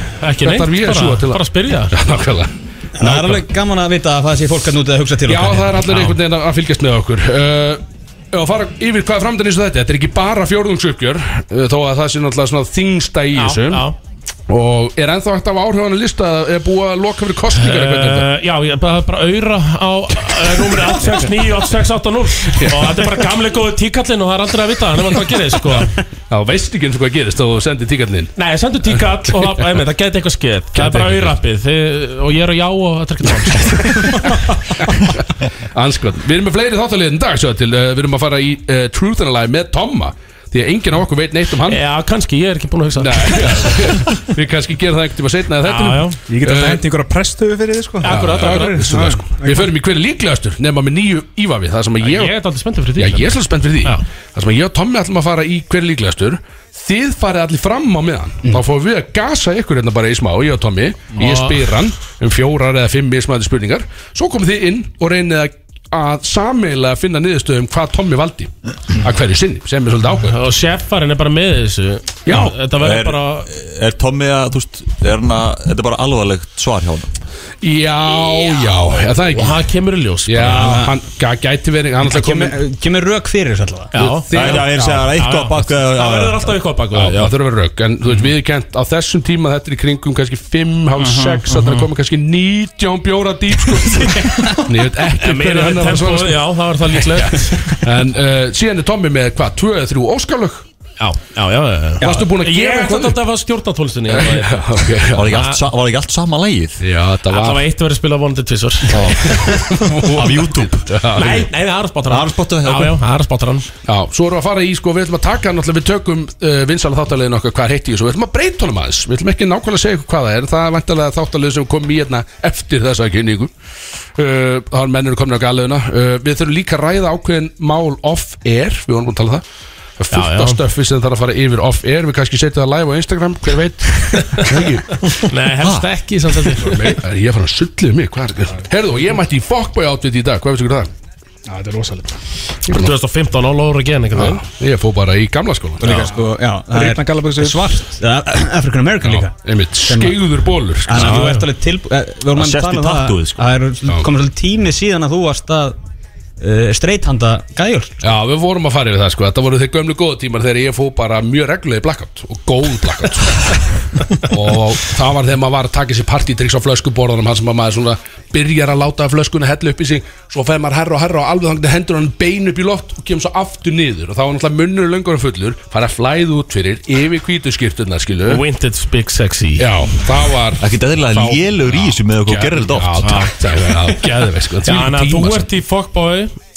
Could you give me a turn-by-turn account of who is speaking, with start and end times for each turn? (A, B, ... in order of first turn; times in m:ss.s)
0:00.2-0:01.9 A
0:00.4-0:03.4 B
0:03.0-0:05.8 C
0:05.3-0:13.9 B
0:05.9-0:06.2 A
0:13.4-0:14.0 A
0:14.5-0:18.3 B
0:17.6-0:26.0 A
0:22.6-0:23.1 B
0:26.3-0:28.3 B
0:28.4-0:34.3 A
0:30.7-0:31.4 B
0:33.8-0:35.1 B
0:35.7-0:41.8 B
0:41.6-0:44.0 A
0:43.0-0:46.8 B
0:45.6-0:46.2 A
0:46.3-0:49.7 D
0:48.0-0:48.9 A
0:48.0-0:52.3 B
0:52.0-0:54.0 A
0:53.0-1:10.4 B
1:01.2-1:01.7 A
1:10.3-1:13.5 A
1:12.3-1:12.6 B
1:12.7-1:17.1 E
1:17.6-1:19.6 B
1:19.3-1:20.9 A
1:20.3-1:22.6 B
1:20.4-1:20.9 C
1:22.0-1:23.9 C
1:23.9-1:27.3 A
1:23.9-1:25.0 B
1:24.3-1:26.6 E
1:26.9-1:40.7 B
1:31.5-1:31.8 A
1:35.2-1:37.8 A
1:41.0-1:44.6 A
1:42.0-1:43.2 B
1:44.1-1:45.3 B
1:45.1-1:46.8 E
1:45.3-1:45.6 A
1:46.8-1:47.6 B
1:47.3-1:49.6 A
1:48.9-1:51.5 B
1:48.9-1:49.3 E
1:50.1-1:50.9 E
1:51.1-1:53.7 A
1:52.1-1:53.0 E
1:53.9-2:03.5 B
2:04.2-2:09.4 B
2:10.0-2:15.1 B
2:10.1-2:10.6 A
2:14.1-2:14.5 A
2:15.2-2:17.0 A
2:15.6-2:15.9 E
2:16.6-2:20.9 B
2:21.5-2:22.2 D
2:22.7-2:24.4 A
2:22.7-2:22.9 B
2:24.2-2:26.0 B
2:25.8-2:30.2 C
2:25.8-2:27.8 D
2:29.1-2:31.3 B
2:30.9-2:35.8 C
2:30.9-2:31.4 A
2:32.3-2:33.5 E
2:36.4-2:38.0 C
2:38.0-2:58.4 B
2:58.3-2:59.7 A
2:59.6-3:05.5 B
3:00.6-3:03.1 E
3:03.0-3:03.9 A
3:04.6-3:06.3 A